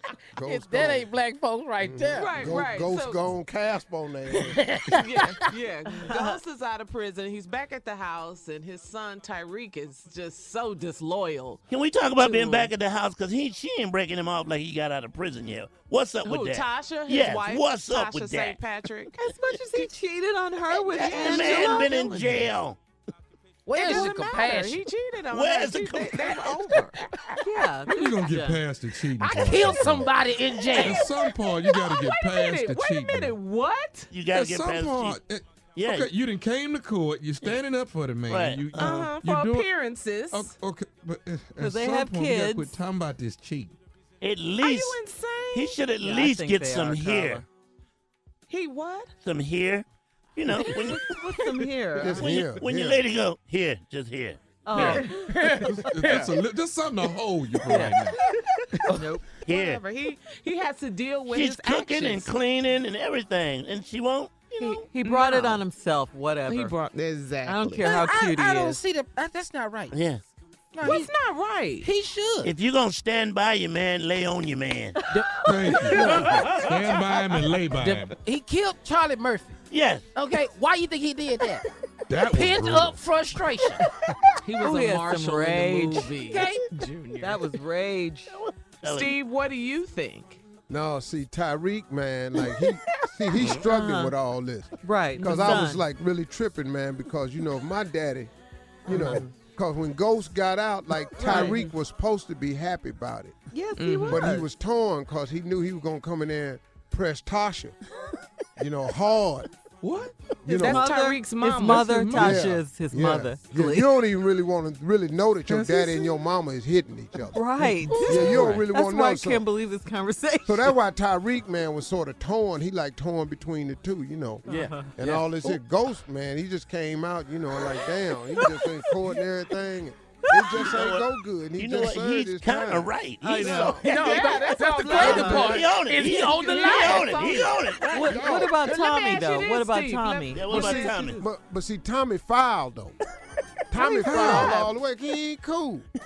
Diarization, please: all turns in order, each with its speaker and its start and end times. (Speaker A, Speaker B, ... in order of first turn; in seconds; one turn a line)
Speaker A: 0.4-1.1
Speaker B: 0.4-2.5
Speaker A: 1.8-4.7
Speaker C: 2.1-3.2
Speaker B: 4.3-5.0
Speaker C: 4.9-11.6
Speaker D: 6.0-6.4
Speaker E: 11.7-18.6
Speaker C: 12.2-12.7
Speaker C: 16.2-19.2
Speaker D: 19.2-22.4
Speaker E: 20.9-22.8
Speaker C: 21.4-21.7
Speaker B: 23.7-24.8
Speaker C: 23.7-27.0
Speaker D: 23.9-24.6
Speaker E: 25.3-26.8
Speaker D: 27.4-28.6
Speaker F: 27.9-30.1
Speaker B: 29.2-31.1
Speaker C: 30.7-31.1
Speaker F: 30.7-33.4
Speaker C: 31.6-34.1
Speaker E: 34.1-35.2
Speaker F: 34.3-39.7
Speaker E: 35.8-36.1
Speaker E: 38.3-39.1
Speaker C: 38.8-40.6
Speaker F: 40.3-43.8
Speaker D: 41.6-42.8
Speaker E: 44.2-45.0
Speaker C: 44.6-45.8
Speaker E: 45.5-47.4
Speaker D: 46.0-47.5
Speaker C: 48.5-49.1
Speaker E: 49.2-51.2
Speaker D: 50.9-52.4
Speaker A: 52.0-53.0
Speaker E: 52.0-55.1
Speaker D: 54.7-55.7
Speaker C: 54.8-55.3
Speaker B: 55.1-56.3
Speaker F: 55.6-58.2
Speaker D: 57.7-58.0
Speaker D: 58.9-59.2
Speaker E: 59.5-59.8
Speaker C: 59.5-62.3
Speaker E: 61.3-64.8
Speaker D: 64.6-66.8
Speaker C: 65.0-65.6
Speaker C: 66.5-68.0
Speaker D: 67.5-68.8
Speaker B: 67.8-70.0
Speaker E: 69.9-70.2
Speaker B: 70.8-71.1
Speaker C: 70.8-71.9
Speaker B: 71.8-72.5
Speaker E: 72.4-75.0
Speaker B: 75.1-76.7
Speaker F: 75.4-78.2
Speaker D: 76.0-76.3
Speaker B: 77.7-79.6
Speaker E: 79.7-80.1
Speaker B: 80.2-81.6
Speaker F: 82.1-83.0
Speaker B: 82.3-83.8
Speaker C: 84.4-87.5
Speaker D: 84.6-86.1
Speaker B: 86.2-86.7
Speaker D: 87.2-88.3
Speaker E: 88.3-89.2
Speaker C: 88.8-90.4
Speaker A: 90.7-98.3
Speaker D: 93.5-94.2
Speaker D: 94.8-95.8
Speaker C: 95.2-95.6
Speaker D: 98.9-99.3
Speaker A: 98.9-103.3
Speaker C: 98.9-99.2
Speaker D: 101.2-101.7
Speaker C: 101.2-101.6
Speaker D: 103.5-104.5
Speaker C: 103.8-104.3
Speaker A: 104.0-107.8
Speaker A: 108.6-109.5
Speaker F: 109.8-110.2
Speaker A: 110.5-110.8
Speaker C: 110.5-112.4
Speaker D: 110.5-113.9
Speaker A: 112.1-117.4
Speaker D: 115.5-116.1
Speaker D: 117.3-120.8
Speaker B: 117.9-118.4
Speaker A: 118.0-119.4
Speaker A: 120.5-132.9
Speaker B: 124.5-124.8
Speaker D: 124.5-124.9
Speaker E: 130.7-131.1
Speaker E: 131.6-133.9
Speaker D: 133.2-135.7
Speaker A: 133.4-133.7
Speaker C: 133.6-141.3
Speaker B: 133.8-137.3
Speaker E: 135.0-138.1
Speaker D: 137.9-140.5
Speaker A: 138.0-138.5
Speaker E: 140.3-141.2
Speaker A: 140.5-143.0
Speaker A: 143.7-145.8
Speaker C: 143.8-144.7
Speaker F: 144.0-144.6
Speaker D: 144.2-144.6